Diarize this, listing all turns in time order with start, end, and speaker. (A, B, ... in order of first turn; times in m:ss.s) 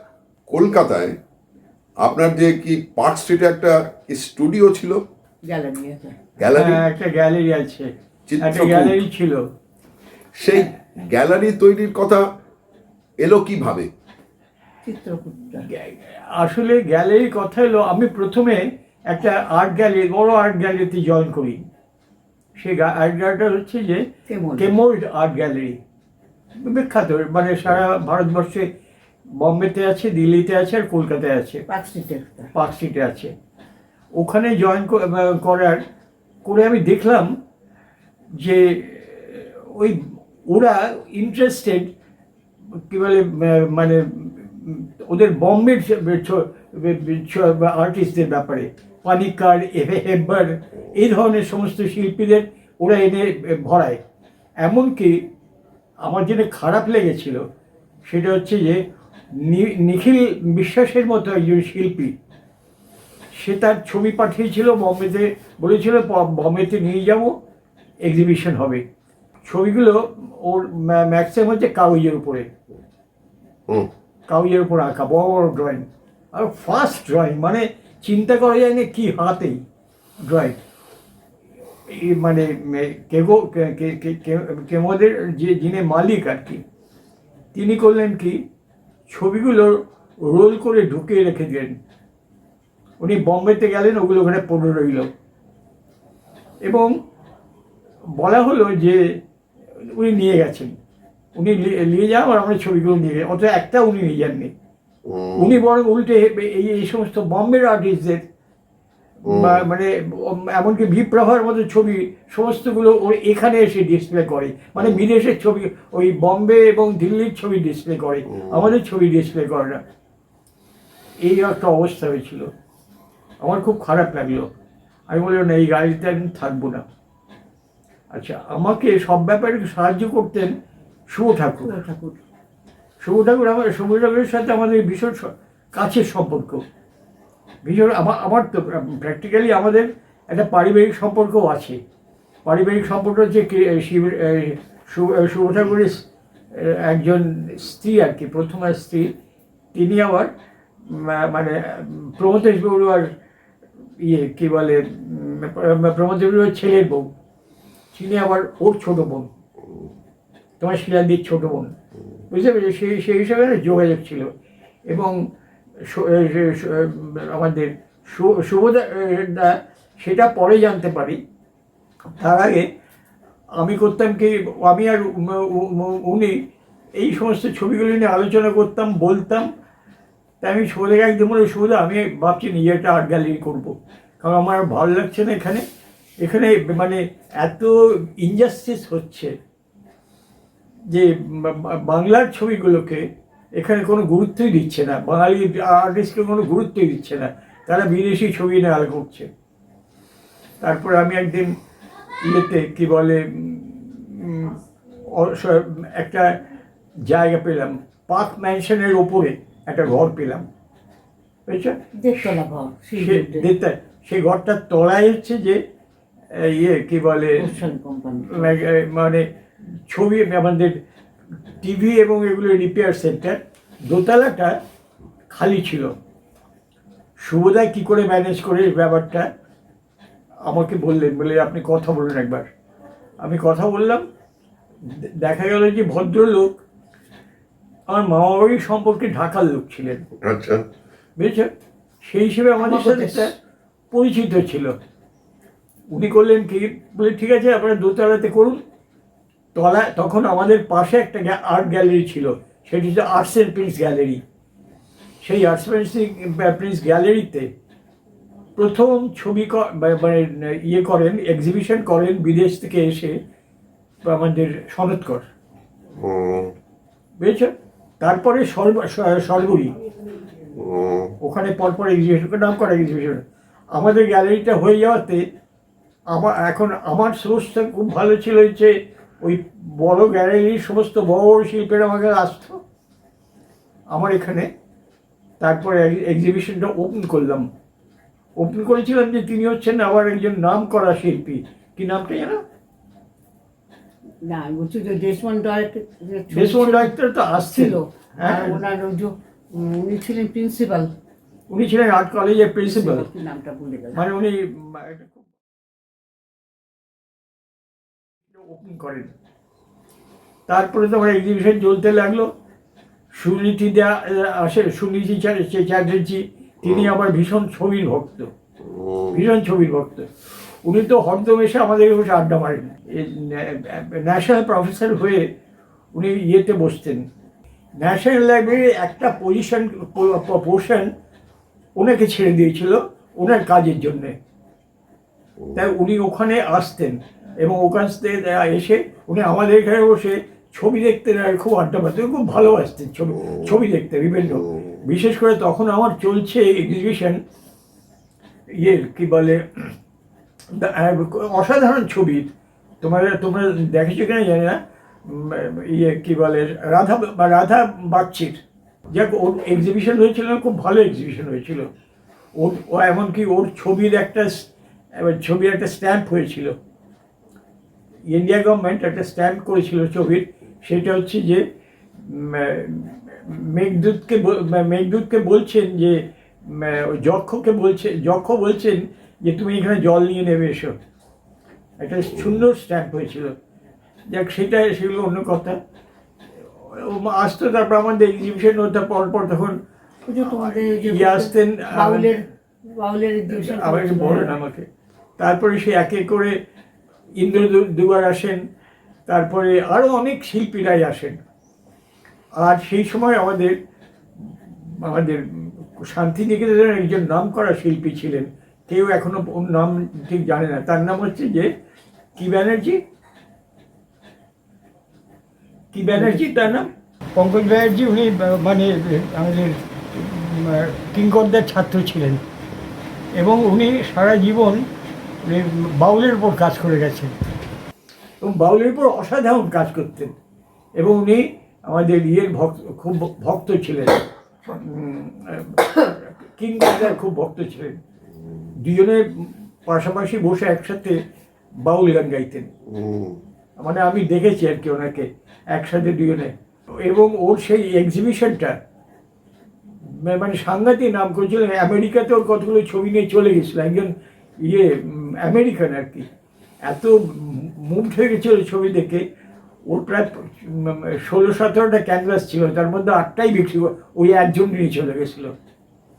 0:00.5-0:01.2 A
0:02.0-0:05.0 A
0:05.4-0:06.2 B
0:06.4-0:06.8 A
0:06.5-0:07.9 C
0:08.3-0:09.0 A
0:08.4-0:09.4 C
0:10.4-0:12.2 A
0:13.2-0:13.9 A
0:14.8-0:15.6 B
0:15.7-0:21.6 C
0:22.6-0:24.0 C
0:24.3-0:24.7 B
0:24.6-0:25.8 C
0:26.6-0:28.7 C
0:29.4-0:31.6 C
0:31.7-0:32.5 B
0:32.5-0:33.3 C
0:34.1-0:35.8 C
0:36.4-0:37.3 C
0:38.4-0:41.9 C
0:42.9-0:54.0 C
0:54.6-0:55.2 C
0:56.0-0:57.4 C
0:58.1-0:58.8 C
0:59.4-1:02.1 C
1:03.4-1:07.3 C
1:08.0-1:08.8 C
1:09.4-1:12.5 C
1:14.3-1:19.6 C
1:20.2-1:20.6 C
1:21.9-1:26.6 C
1:27.5-1:28.4 C
1:29.1-1:31.8 C
1:33.0-1:35.1 C
1:36.6-1:36.9 C
1:38.2-1:39.0 C
1:39.8-1:40.7 C
1:41.4-1:44.5 C
1:45.0-1:45.5 A
1:45.4-1:48.2 C
1:49.3-1:49.6 A
1:49.3-1:59.8 C
1:54.8-1:55.0 A
1:58.3-1:58.6 A
2:01.2-2:02.5 C
2:03.4-2:04.5 C
2:05.1-2:06.8 C
2:08.1-2:10.5 C
2:11.1-2:11.8 C
2:11.6-2:12.2 B
2:13.0-2:16.6 C
2:17.6-2:21.8 C
2:22.4-2:26.0 C
2:26.5-2:29.1 C
2:29.7-2:30.3 C
2:30.9-2:33.1 C
2:34.0-2:37.1 C
2:37.9-2:39.3 C
2:40.6-2:41.7 C
2:42.3-2:44.3 C
2:44.9-2:45.1 C
2:45.9-2:51.2 C
2:52.2-2:52.6 C
2:53.6-2:56.3 C
2:57.0-2:59.4 C
3:00.4-3:05.6 C
3:06.2-3:09.3 C
3:10.9-3:13.0 C
3:13.6-3:19.3 C
3:20.6-3:21.5 C
3:22.2-3:26.4 C
3:27.1-3:30.4 C
3:31.5-3:31.8 C
3:32.0-3:33.5 B
3:33.0-3:35.6 C
3:36.3-3:37.5 C
3:37.4-3:38.6 B
3:38.3-3:39.2 C
3:39.9-3:40.8 C
3:41.6-3:44.6 C
3:45.3-3:45.9 C
3:47.2-3:49.3 C
3:50.4-3:52.5 C
3:53.2-3:54.0 C
3:54.8-3:56.6 C
3:57.9-4:00.0 C
4:00.2-4:00.6 A
4:01.2-4:01.5 C
4:02.0-4:03.3 C
4:02.6-4:03.3 B
4:03.9-4:04.7 C
4:05.9-4:08.6 C
4:09.5-4:14.2 C
4:15.2-4:17.5 C
4:18.6-4:23.1 C
4:24.0-4:25.2 C
4:26.0-4:26.5 A
4:27.2-4:29.7 C
4:30.6-4:31.1 A
4:31.2-4:33.2 C
4:33.7-4:35.2 C
4:36.1-4:42.6 C
4:43.9-4:44.5 C
4:45.4-4:47.5 C
4:48.4-4:52.4 C
4:54.2-5:00.9 B
4:56.3-4:58.6 C
5:01.5-5:03.0 C
5:02.6-5:04.0 B
5:03.9-5:05.2 C
5:08.3-5:09.1 C
5:10.5-5:12.3 C
5:13.1-5:18.3 C
5:16.6-5:16.9 A
5:18.6-5:19.2 A
5:19.1-5:20.1 C
5:20.6-5:25.3 C
5:25.9-5:27.0 C
5:27.8-5:30.9 C
5:31.8-5:34.1 C
5:35.5-5:47.2 C
5:48.6-5:49.7 C
5:50.5-5:52.3 C
5:52.8-6:01.7 C
6:02.4-6:06.6 C
6:08.1-6:11.4 C
6:12.0-6:20.7 C
6:21.8-6:23.3 C
6:24.1-6:25.6 C
6:26.6-6:29.6 C
6:30.0-6:34.4 B
6:30.2-6:32.2 C
6:33.3-6:34.6 C
6:35.2-6:36.3 C
6:37.2-6:38.4 C
6:39.1-6:41.2 C
6:42.4-6:43.6 C
6:44.3-6:51.5 C
6:52.2-6:52.8 C
6:55.7-7:02.2 C
6:55.9-6:56.3 B
7:03.2-7:04.7 C
7:05.2-7:07.1 C
7:08.2-7:10.1 C
7:10.8-7:17.8 C
7:18.6-7:21.0 C
7:21.6-7:22.5 C
7:22.6-7:23.2 A
7:23.6-7:28.6 C
7:29.9-7:36.0 C
7:36.6-7:39.0 C
7:39.7-7:45.3 C